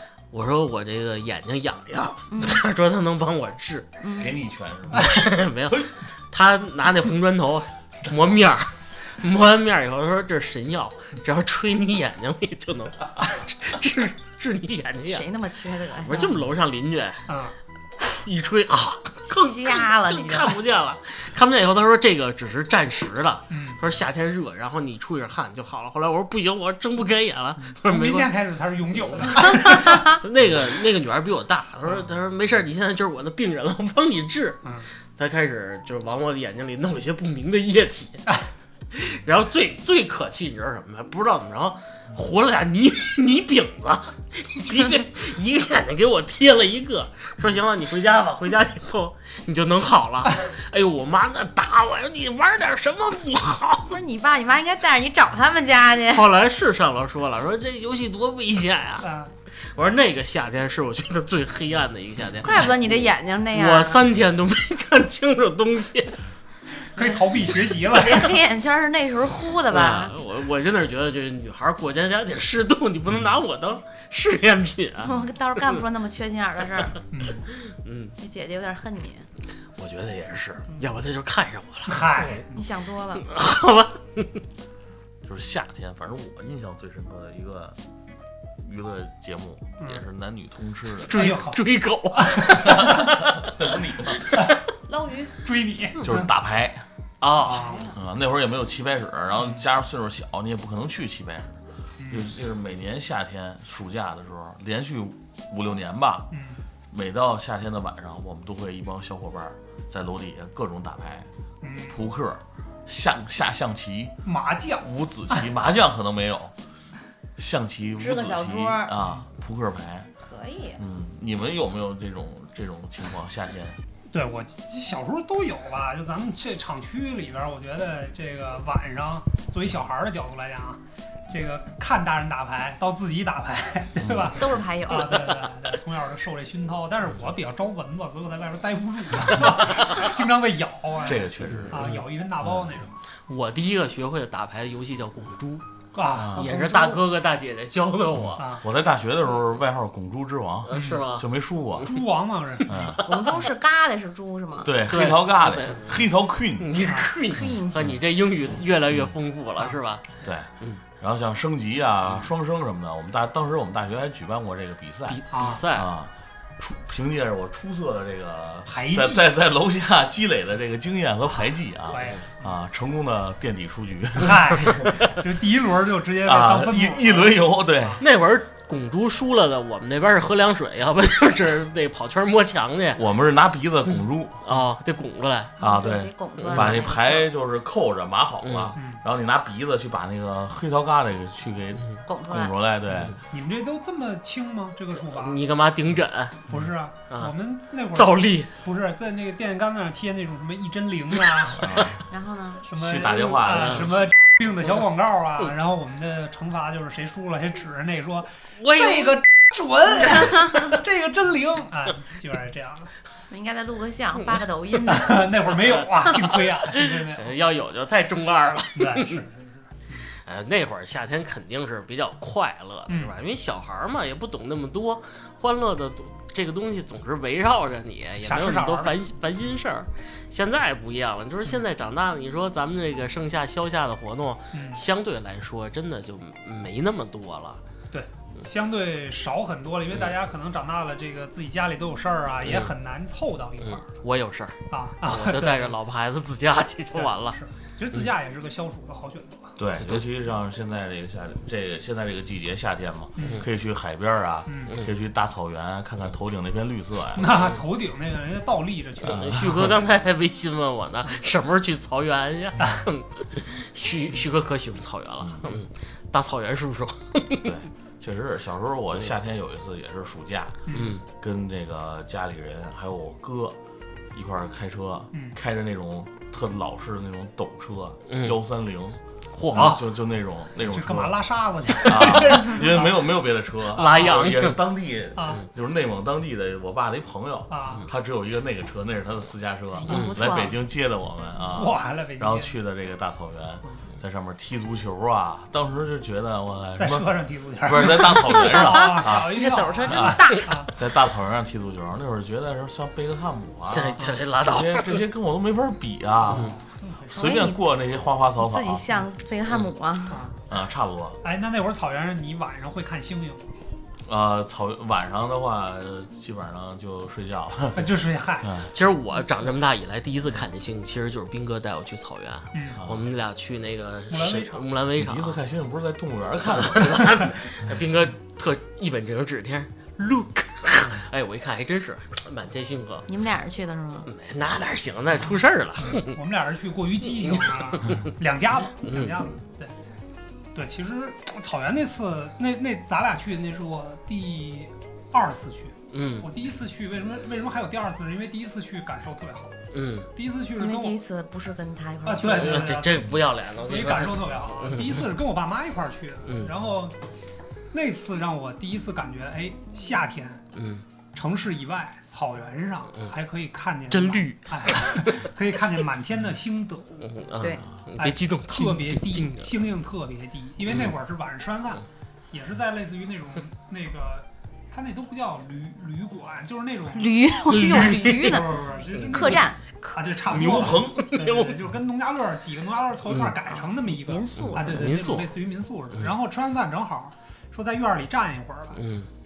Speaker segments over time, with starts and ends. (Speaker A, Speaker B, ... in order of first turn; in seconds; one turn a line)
Speaker A: 0.3-3.9
Speaker B: 2.3-2.6
Speaker B: 4.0-4.3
Speaker C: 4.2-5.2
Speaker A: 4.9-15.2
Speaker B: 15.1-16.4
Speaker A: 16.0-17.3
Speaker D: 17.3-17.5
Speaker A: 18.0-28.3
Speaker B: 19.2-20.6
Speaker D: 23.5-23.8
Speaker D: 27.6-30.2
Speaker A: 29.1-38.2
Speaker D: 34.6-34.9
Speaker A: 38.9-54.0
Speaker B: 53.9-56.3
Speaker A: 56.1-62.9
Speaker D: 59.0-59.3
Speaker B: 62.4-64.0
Speaker A: 63.5-66.2
Speaker D: 66.8-68.3
Speaker B: 67.8-70.1
Speaker A: 69.7-75.2
Speaker B: 75.0-77.0
Speaker D: 77.1-77.5
Speaker A: 77.6-78.2
Speaker B: 78.2-79.3
Speaker A: 79.8-82.4
Speaker D: 81.9-82.6
Speaker B: 82.5-83.3
Speaker A: 83.2-84.4
Speaker C: 85.2-87.8
Speaker C: 88.6-91.2
Speaker A: 91.0-93.2
Speaker D: 91.1-91.6
Speaker D: 92.1-93.2
Speaker C: 92.6-94.4
Speaker B: 94.9-95.3
Speaker D: 95.4-96.3
Speaker C: 96.0-96.8
Speaker A: 97.2-97.8
Speaker D: 97.4-97.9
Speaker B: 97.6-97.9
Speaker C: 97.9-106.3
Speaker D: 102.0-102.3
Speaker D: 106.3-106.6
Speaker C: 106.9-111.3
Speaker D: 111.6-112.0
Speaker C: 111.8-114.1
Speaker D: 114.2-115.4
Speaker C: 114.8-116.5
Speaker C: 117.4-120.1
Speaker B: 118.0-118.9
Speaker B: 120.2-120.8
Speaker C: 120.8-123.8
Speaker D: 124.1-143.0
Speaker C: 134.0-134.3
Speaker B: 134.3-135.5
Speaker C: 141.0-141.9
Speaker A: 141.7-142.0
Speaker A: 143.3-145.6
Speaker D: 145.9-146.5
Speaker C: 146.2-146.4
Speaker A: 146.3-148.6
Speaker B: 146.4-147.0
Speaker D: 148.4-148.6
Speaker C: 148.6-151.9
Speaker A: 150.7-151.3
Speaker D: 150.7-151.1
Speaker D: 151.8-152.9
Speaker C: 152.7-153.2
Speaker B: 153.0-154.7
Speaker C: 154.6-156.7
Speaker A: 154.9-156.0
Speaker A: 156.6-160.8
Speaker B: 157.3-157.8
Speaker C: 160.2-174.9
Speaker A: 165.1-165.9
Speaker D: 165.3-165.6
Speaker D: 168.7-169.3
Speaker D: 171.9-172.5
Speaker D: 174.2-178.0
Speaker C: 176.2-178.0
Speaker A: 178.0-183.0
Speaker C: 182.9-184.4
Speaker A: 184.4-185.5
Speaker B: 185.6-187.3
Speaker C: 185.6-193.1
Speaker A: 186.5-186.8
Speaker A: 188.4-188.7
Speaker D: 188.8-189.0
Speaker B: 192.1-192.5
Speaker D: 193.3-195.4
Speaker A: 195.1-196.5
Speaker D: 196.5-202.0
Speaker A: 197.9-198.5
Speaker C: 201.6-202.0
Speaker B: 202.1-202.6
Speaker D: 202.6-212.9
Speaker C: 202.7-204.1
Speaker A: 208.6-209.2
Speaker B: 213.3-215.3
Speaker D: 214.8-217.4
Speaker A: 216.7-219.2
Speaker D: 218.8-220.1
Speaker A: 220.2-237.6
Speaker D: 228.2-229.0
Speaker D: 234.5-234.8
Speaker D: 237.9-243.9
Speaker A: 242.4-242.7
Speaker A: 243.7-247.4
Speaker D: 244.7-245.7
Speaker D: 246.9-249.6
Speaker C: 249.6-257.5
Speaker D: 253.2-253.4
Speaker D: 254.5-254.7
Speaker D: 257.1-259.4
Speaker A: 259.0-267.5
Speaker C: 259.1-259.7
Speaker C: 267.4-273.6
Speaker D: 270.7-271.0
Speaker A: 270.7-271.0
Speaker C: 274.1-279.0
Speaker D: 275.1-275.4
Speaker A: 278.1-278.4
Speaker A: 279.3-279.8
Speaker D: 279.5-279.9
Speaker C: 279.5-281.2
Speaker D: 280.7-283.0
Speaker C: 281.8-297.1
Speaker A: 283.7-284.6
Speaker D: 285.1-285.4
Speaker D: 287.5-287.9
Speaker B: 289.7-290.5
Speaker D: 291.4-292.6
Speaker D: 296.8-300.7
Speaker C: 297.6-306.5
Speaker B: 298.4-300.6
Speaker A: 303.7-305.0
Speaker D: 306.3-307.4
Speaker C: 307.1-309.0
Speaker B: 307.1-307.6
Speaker B: 308.4-310.3
Speaker D: 310.1-310.4
Speaker C: 310.5-311.2
Speaker D: 311.2-313.5
Speaker C: 314.0-318.7
Speaker D: 317.7-318.5
Speaker A: 318.7-325.3
Speaker D: 322.5-322.8
Speaker D: 324.1-324.6
Speaker C: 324.9-327.3
Speaker A: 326.4-333.1
Speaker B: 333.1-334.1
Speaker A: 334.1-336.2
Speaker D: 335.9-339.7
Speaker A: 337.2-338.1
Speaker A: 338.8-339.3
Speaker D: 340.5-349.6
Speaker A: 345.9-346.3
Speaker A: 349.7-350.1
Speaker D: 350.1-351.0
Speaker B: 350.6-352.8
Speaker D: 352.0-353.1
Speaker A: 352.2-355.0
Speaker D: 353.6-357.0
Speaker D: 357.7-360.4
Speaker A: 360.5-360.8
Speaker D: 361.1-367.1
Speaker A: 363.9-365.2
Speaker A: 367.0-369.5
Speaker D: 368.0-388.8
Speaker A: 370.7-370.9
Speaker B: 376.9-379.6
Speaker A: 377.7-378.4
Speaker C: 380.2-381.1
Speaker A: 381.1-381.5
Speaker A: 383.1-383.4
Speaker B: 383.5-384.9
Speaker A: 384.4-385.4
Speaker A: 388.8-389.1